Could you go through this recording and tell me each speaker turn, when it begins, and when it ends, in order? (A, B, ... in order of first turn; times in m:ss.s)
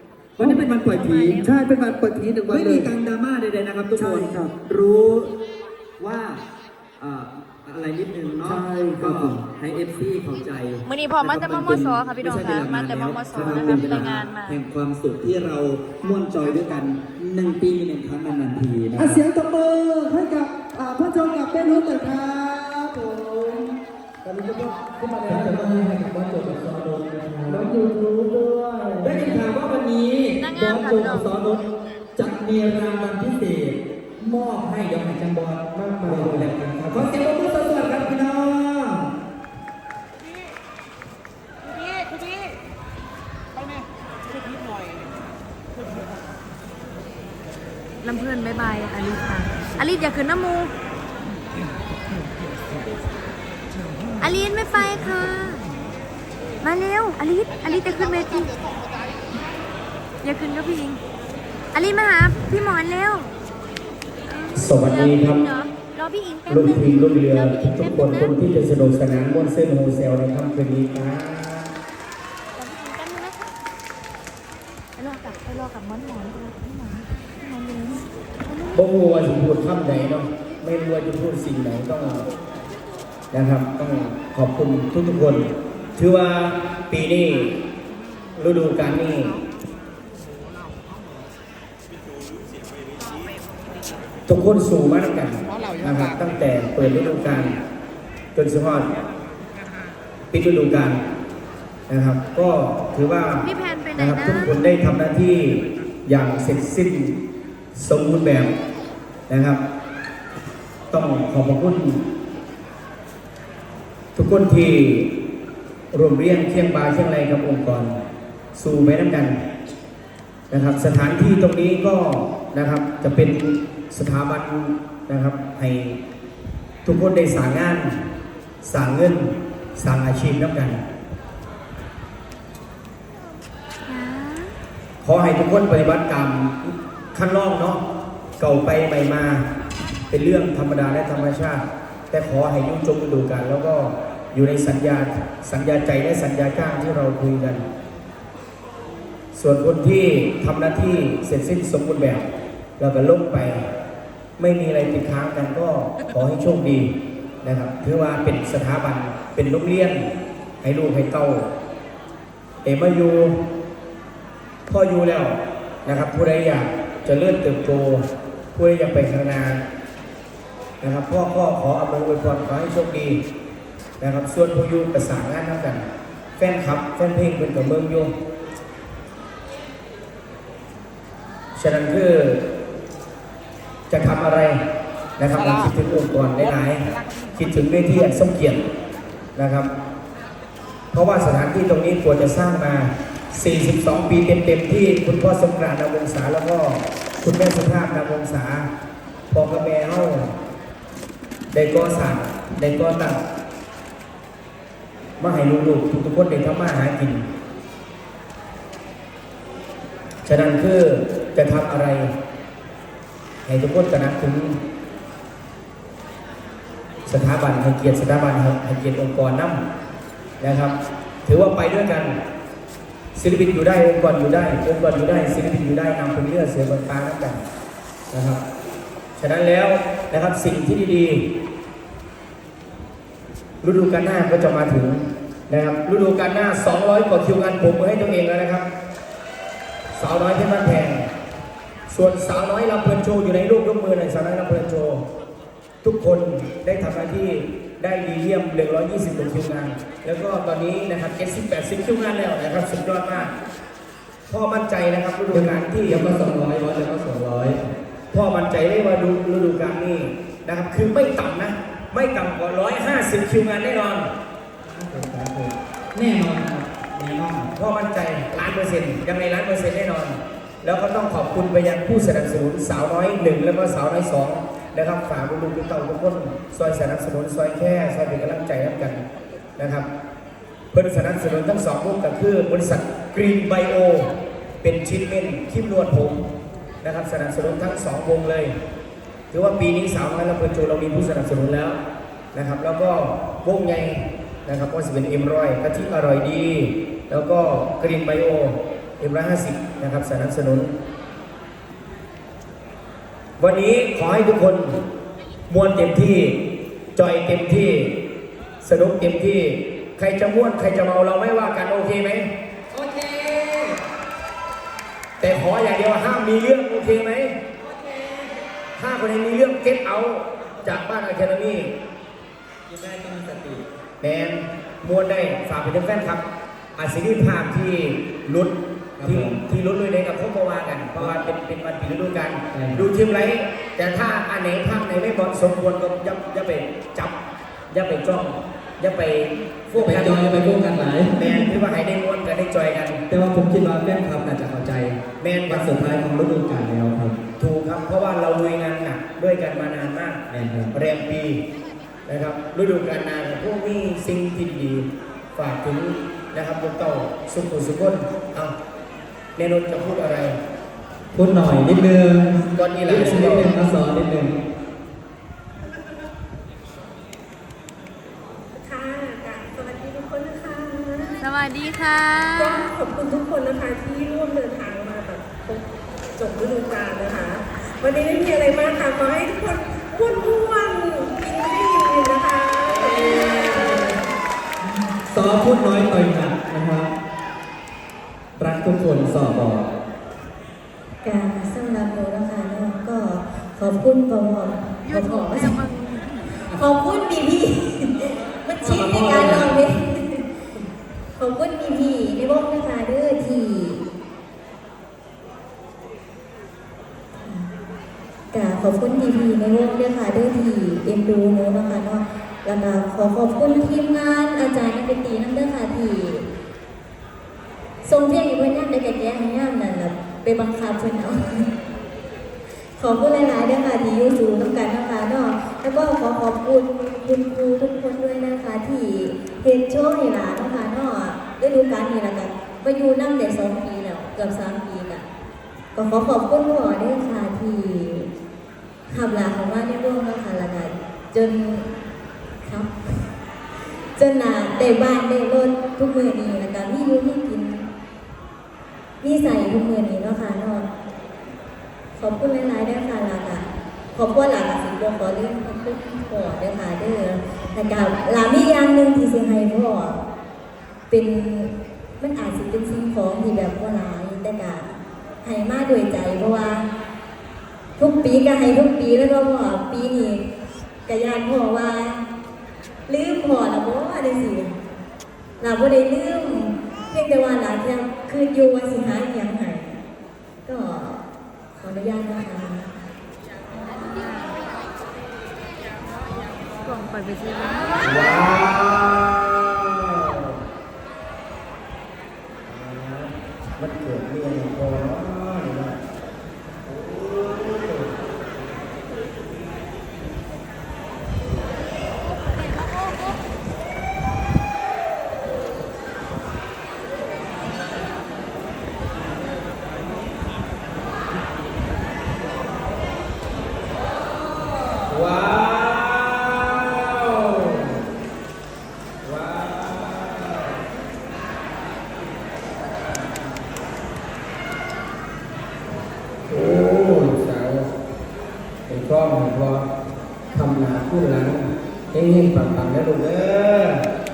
0:00.4-0:01.5 A
0:00.4-0:00.7 B
0:00.9-0:01.5 C
0:01.5-0:02.9 B
0:02.5-0:05.3 A
0:04.0-0:04.5 B
0:06.0-0:06.4 A
0:07.0-0:19.2 A
0:08.5-0:09.4 B
0:10.8-0:14.6 C
0:19.0-0:23.6 B
0:24.2-0:25.8 B
0:25.2-0:27.7 A
0:27.5-0:29.5 B
0:29.0-0:39.1 A
0:30.4-0:31.3 C
0:35.8-0:36.5 D
0:48.0-0:50.7 C
0:54.2-0:55.7 C
0:56.6-0:58.5 C
1:00.2-1:01.0 C
1:01.7-1:03.3 C
1:04.2-1:08.3 C
1:04.5-1:05.4 D
1:06.5-1:11.7 D
1:12.6-1:13.4 C
1:15.0-1:18.7 C
1:18.7-1:22.3 D
1:23.3-1:27.6 D
1:28.4-1:29.4 D
1:34.2-1:37.6 D
1:38.3-1:38.9 D
1:40.3-1:41.0 D
1:41.9-1:47.2 D
1:43.4-1:44.5 C
1:47.7-1:48.5 D
1:49.3-1:49.6 D
1:50.9-1:52.0 D
1:54.1-1:55.1 D
1:55.9-1:58.0 D
1:58.6-1:59.4 D
2:00.5-2:06.0 D
2:06.8-2:08.0 D
2:08.6-2:10.8 D
2:13.9-2:14.6 C
2:15.0-2:17.8 D
2:18.4-2:19.4 D
2:20.1-2:27.6 D
2:29.3-2:32.3 D
2:32.8-2:33.6 D
2:34.4-2:36.9 D
2:37.4-2:40.1 D
2:40.6-2:41.5 D
2:42.6-2:43.4 D
2:44.7-2:49.6 D
2:50.8-2:53.2 D
2:54.0-2:55.8 D
2:56.4-2:58.1 D
3:01.6-3:02.4 D
3:03.9-3:04.6 D
3:05.2-3:08.6 D
3:09.4-3:09.7 D
3:10.9-3:18.7 D
3:19.3-3:20.3 D
3:21.5-3:23.2 D
3:25.2-3:27.2 D
3:30.2-3:32.1 D
3:33.4-3:34.6 D
3:37.0-3:39.6 D
3:40.4-3:42.2 D
3:43.2-3:47.4 D
3:48.1-3:48.4 D
3:49.2-3:51.2 D
3:53.6-3:58.7 D
3:59.9-4:01.1 D
4:01.9-4:05.0 D
4:05.8-4:13.3 D
4:14.3-4:16.0 D
4:15.3-4:17.6 A
4:18.1-4:24.1 D
4:24.6-4:27.5 A
4:27.5-4:39.0 D
4:39.6-4:39.9 D
4:40.7-4:46.2 D
4:46.8-4:48.5 D
4:49.3-4:51.8 D
4:52.3-5:00.7 D
5:03.4-5:04.8 D
5:05.5-5:06.4 D
5:07.0-5:07.9 D
5:08.6-5:12.3 D
5:12.7-5:13.8 A
5:15.2-5:17.3 D
5:17.6-5:18.3 A
5:18.8-5:21.7 D
5:22.7-5:23.6 A
5:24.0-5:26.2 D
5:26.8-5:37.1 D
5:29.0-5:29.4 A
5:32.5-5:32.9 A
5:37.7-5:40.4 D
5:39.7-5:41.5 A
5:41.1-5:43.0 D
5:43.1-5:47.2 A
5:45.2-5:45.7 D
5:47.4-5:51.4 D
5:50.3-5:50.7 A
5:52.1-5:58.5 D
5:59.4-6:00.4 D
6:01.1-6:04.4 A
6:02.5-6:03.5 D
6:08.6-6:11.1 E
6:11.2-6:12.7 C
6:12.4-6:15.6 E
6:16.2-6:24.0 E
6:22.7-6:23.9 A
6:25.1-6:26.9 A
6:28.4-6:29.7 A
6:31.0-6:35.6 F
6:34.8-6:36.3 C
6:36.4-6:40.2 F
6:38.6-6:39.5 A
6:41.2-6:43.8 F
6:47.2-6:47.5 F
6:48.3-6:56.3 F
6:57.8-7:01.5 F
7:02.8-7:15.0 F
7:15.7-7:18.1 F
7:18.9-7:21.7 F
7:22.4-7:23.1 F
7:24.0-7:27.7 F
7:29.0-7:30.7 F
7:32.0-7:40.0 F
7:40.9-7:46.7 F
7:47.8-7:50.2 F
7:50.8-7:52.0 F
7:52.9-7:54.6 F
7:55.4-7:59.8 F
8:00.4-8:01.0 F
8:01.6-8:02.7 F
8:03.5-8:04.4 C
8:06.6-8:08.1 C
8:07.8-8:10.0 D
8:12.4-8:15.8 D
8:16.6-8:17.9 D
8:34.8-8:37.8 D
8:39.0-8:40.6 D
8:46.3-8:47.7 D
8:48.7-8:49.7 D
8:50.3-8:53.8 D